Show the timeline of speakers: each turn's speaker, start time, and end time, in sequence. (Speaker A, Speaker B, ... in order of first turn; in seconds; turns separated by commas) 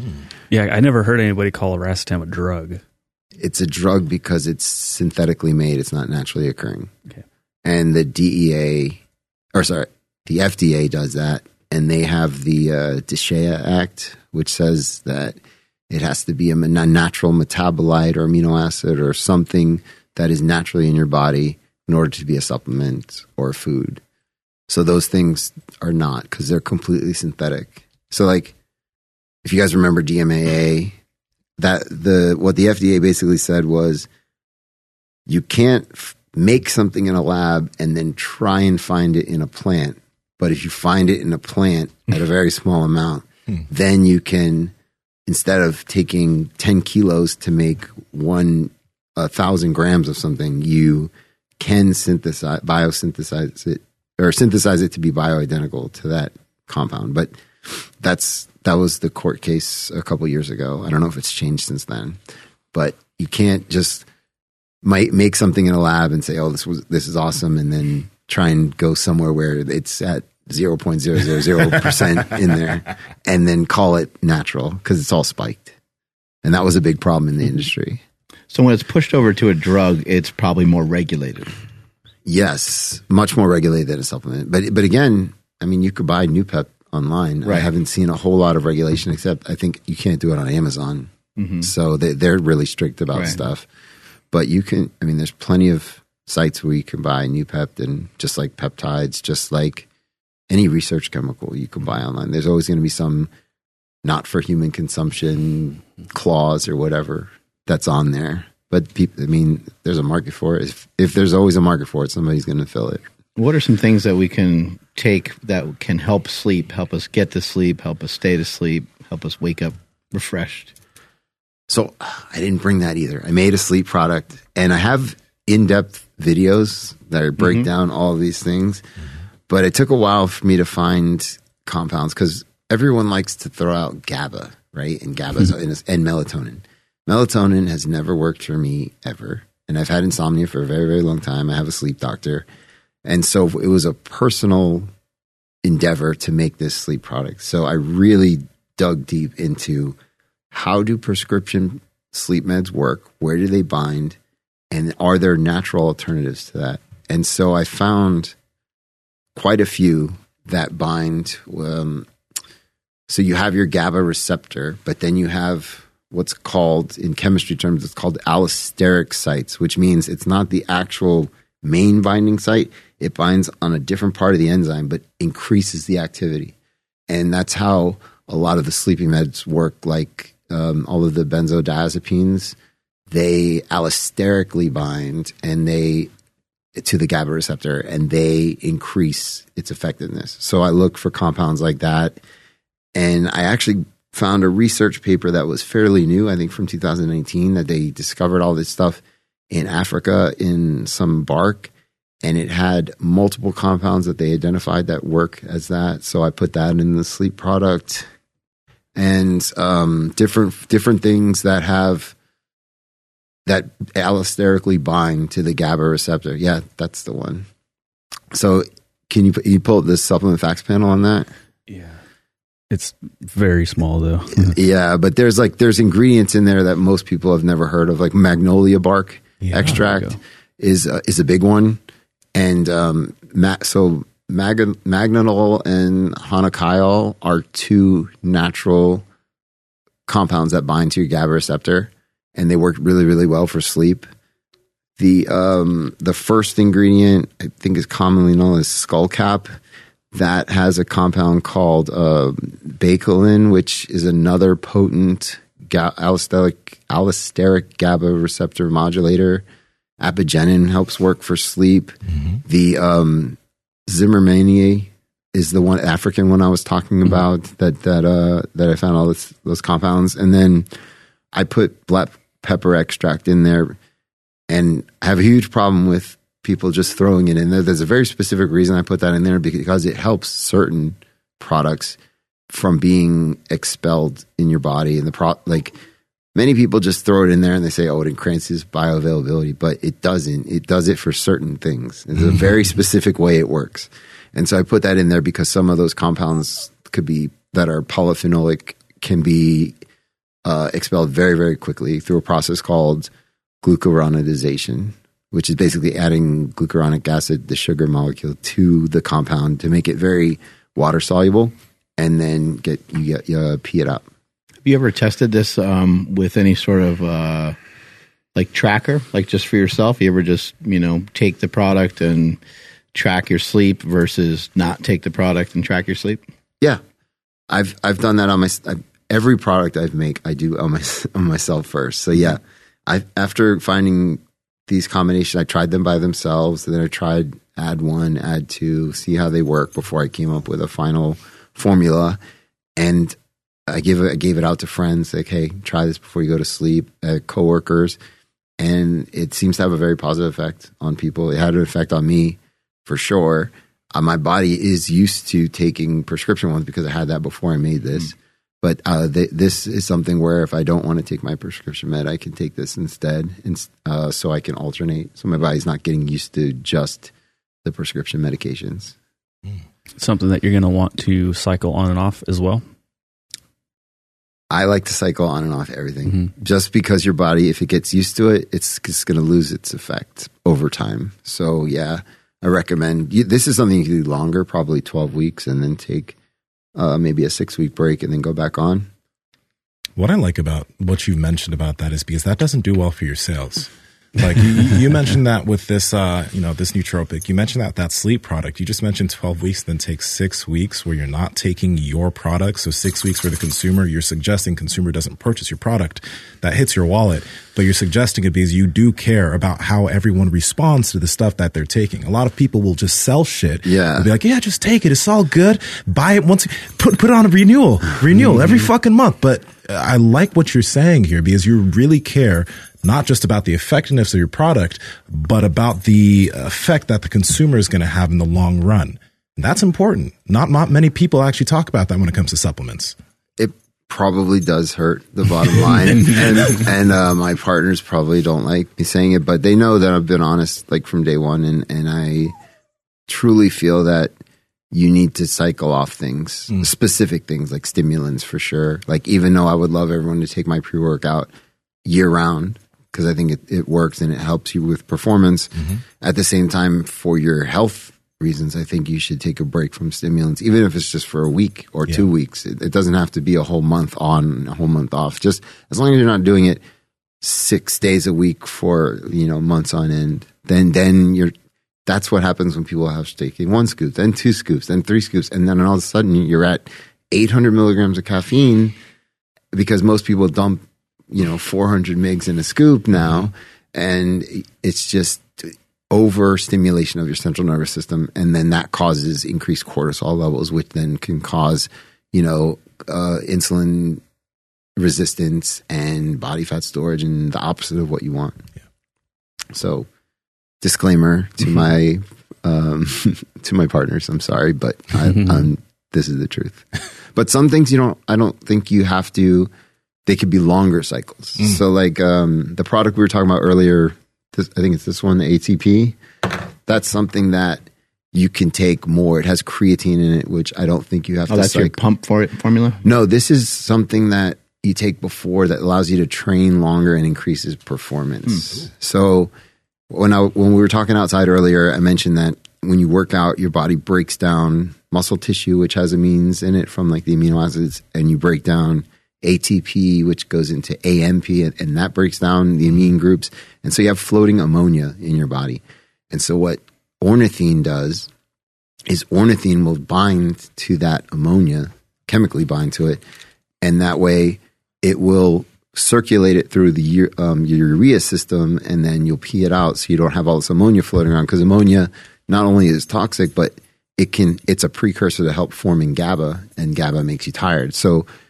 Speaker A: 0.5-2.8, Speaker B: 3.4-6.9, Speaker B: 7.6-9.0, Speaker B: 9.5-15.4, Speaker B: 15.9-24.0, Speaker B: 24.7-28.5, Speaker B: 29.4-31.0, Speaker B: 31.6-34.1, Speaker B: 35.2-44.7, Speaker B: 45.2-62.2, Speaker B: 62.7-64.0, Speaker B: 64.8-75.7, Speaker B: 76.4-78.0, Speaker C: 78.5-81.5, Speaker B: 82.2-93.7, Speaker C: 87.4-87.7, Speaker C: 91.4-91.7, Speaker C: 93.1-93.4, Speaker B: 94.3-99.9, Speaker B: 100.5-103.3, Speaker B: 104.0-113.0, Speaker C: 113.3-120.7, Speaker B: 121.7-128.8, Speaker C: 127.4-127.7, Speaker B: 129.5-142.4, Speaker B: 143.0-144.9, Speaker B: 145.6-150.0, Speaker B: 150.5-154.2, Speaker B: 154.7-158.3, Speaker B: 159.3-162.1, Speaker B: 163.1-176.5, Speaker B: 177.1-182.6, Speaker B: 183.1-186.1, Speaker B: 186.7-192.2, Speaker B: 192.9-201.7, Speaker B: 202.2-208.1, Speaker B: 208.9-212.1, Speaker B: 213.4-217.5, Speaker B: 218.3-221.3, Speaker A: 221.7-222.0, Speaker A: 222.7-224.5, Speaker B: 224.3-231.8, Speaker D: 229.4-229.7, Speaker A: 229.6-230.2, Speaker B: 232.3-239.0, Speaker B: 240.1-244.1, Speaker B: 245.0-249.5, Speaker B: 250.1-259.4, Speaker B: 260.0-270.7, Speaker B: 271.3-273.8, Speaker B: 274.5-282.0, Speaker B: 282.5-285.7, Speaker B: 286.3-299.8, Speaker B: 300.4-303.1, Speaker B: 303.6-314.1, Speaker C: 314.6-317.6, Speaker C: 318.3-322.4, Speaker C: 322.9-326.2, Speaker B: 327.5-342.2, Speaker B: 342.8-343.1, Speaker B: 343.7-348.0, Speaker B: 348.6-367.1, Speaker B: 367.6-368.9, Speaker A: 370.0-372.6, Speaker B: 374.5-386.1, Speaker B: 386.7-388.9, Speaker D: 390.0-432.9, Speaker B: 413.6-414.1, Speaker B: 433.4-442.3, Speaker B: 443.1-444.1, Speaker B: 444.7-451.3, Speaker B: 451.8-466.6, Speaker B: 467.2-471.3, Speaker B: 471.9-478.7, Speaker B: 479.5-494.0, Speaker B: 494.8-498.4, Speaker B: 499.5-499.9, Speaker B: 500.6-509.5, Speaker B: 510.1-516.0, Speaker B: 516.6-521.8, Speaker C: 521.3-522.8, Speaker B: 522.8-529.3, Speaker B: 529.9-548.1, Speaker B: 548.9-553.0, Speaker B: 553.6-568.0